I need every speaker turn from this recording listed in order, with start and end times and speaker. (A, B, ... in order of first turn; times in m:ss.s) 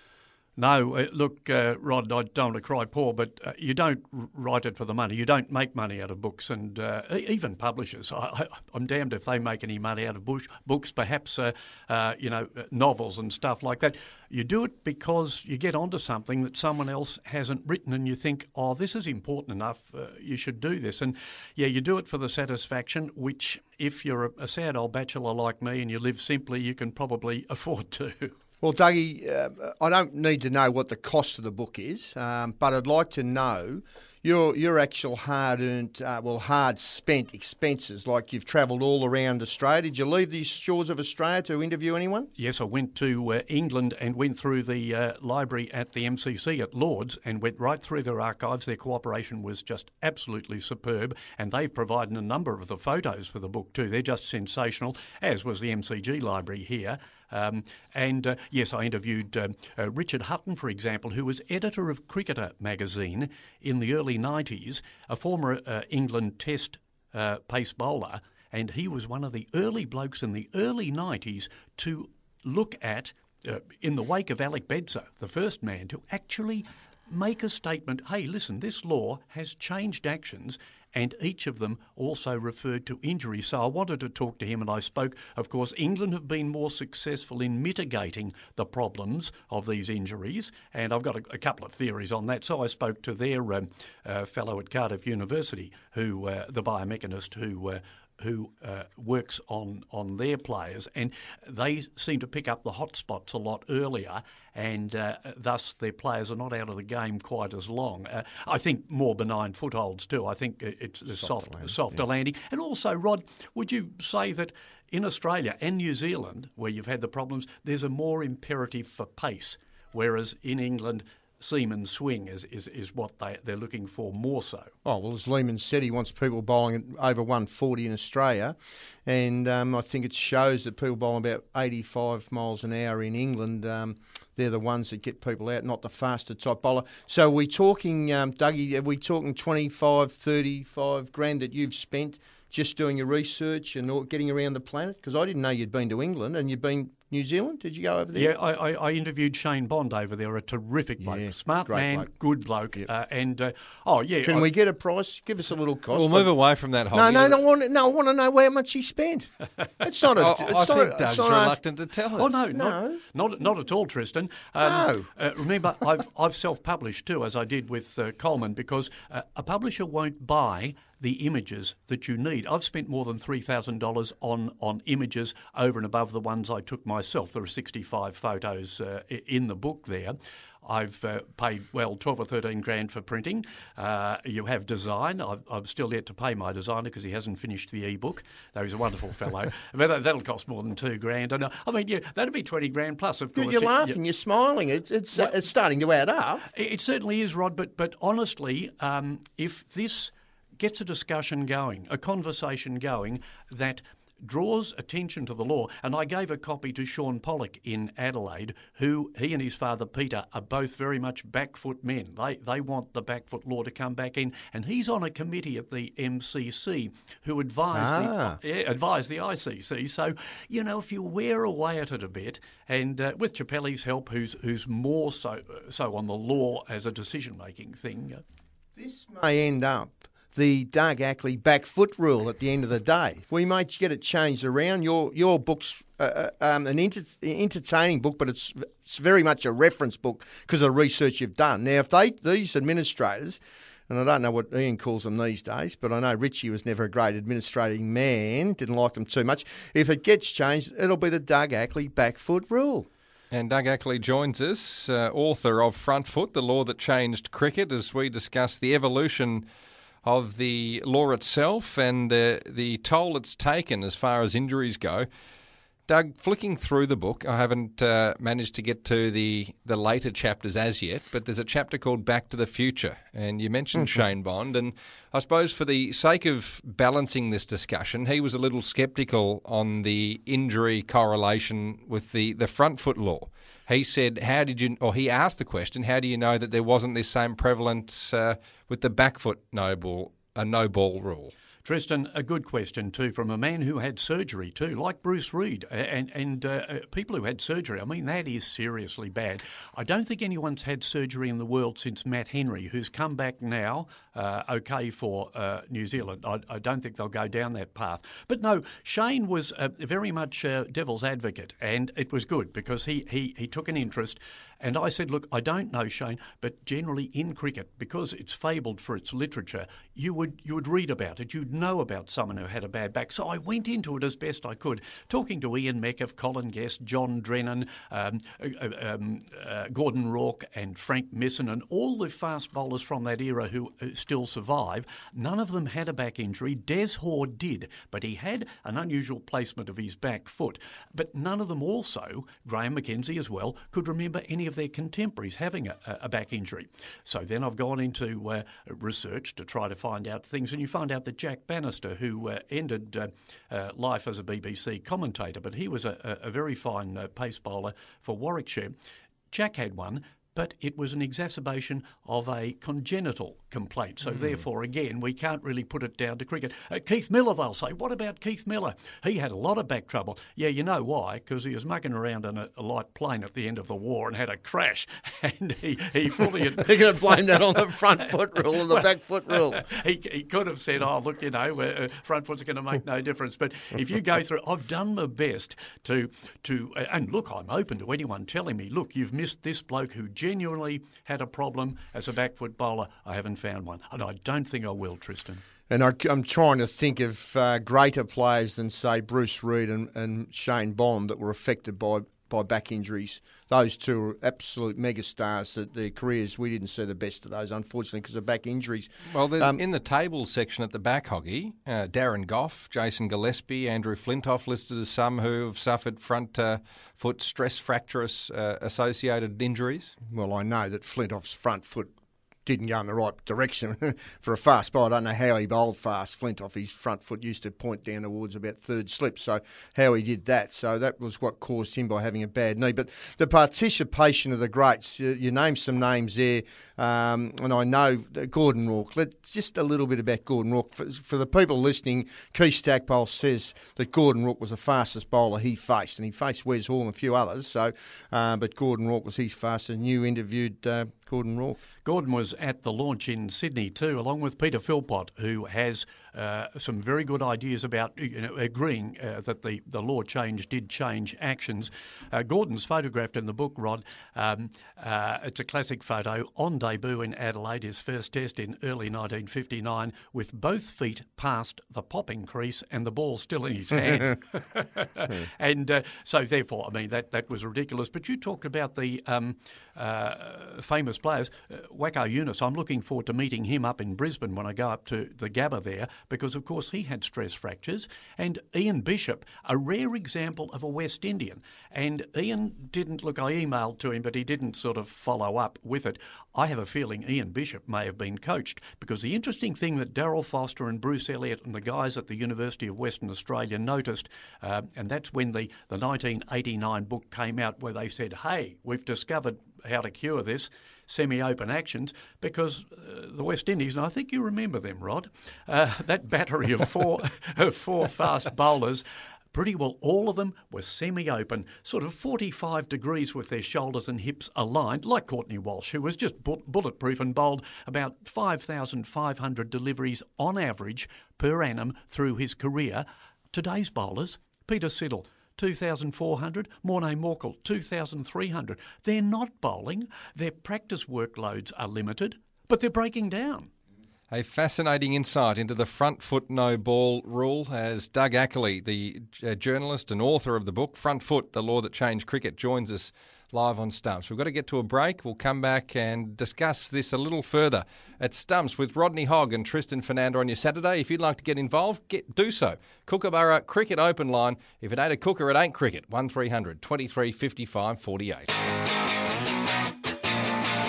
0:00.6-0:28.3 A
0:28.6-0:42.3 B
0:42.4-2:04.7 A
1:51.2-1:52.0 B
2:04.8-2:28.3 B
2:28.1-2:34.5 A
2:31.0-2:32.1 B
2:34.2-2:36.3 B
2:35.9-2:37.4 C
2:36.9-2:41.6 B
2:40.2-2:42.4 C
2:42.2-3:14.0 A
2:42.5-2:43.0 B
2:44.6-2:45.1 B
3:13.4-3:16.4 B
3:16.5-3:48.2 A
3:37.7-3:38.4 B
3:48.8-4:12.9 B
4:13.3-4:19.4 C
4:20.0-4:25.1 C
4:25.9-4:51.3 C
4:51.6-5:58.7 A
5:59.3-6:17.7 A
6:16.5-6:19.7 B
6:18.3-6:35.4 A
6:35.7-6:49.6 B
6:49.1-6:59.9 C
7:00.0-7:01.9 B
7:02.4-7:31.6 B
7:31.8-9:03.5 A
9:04.1-9:28.3 C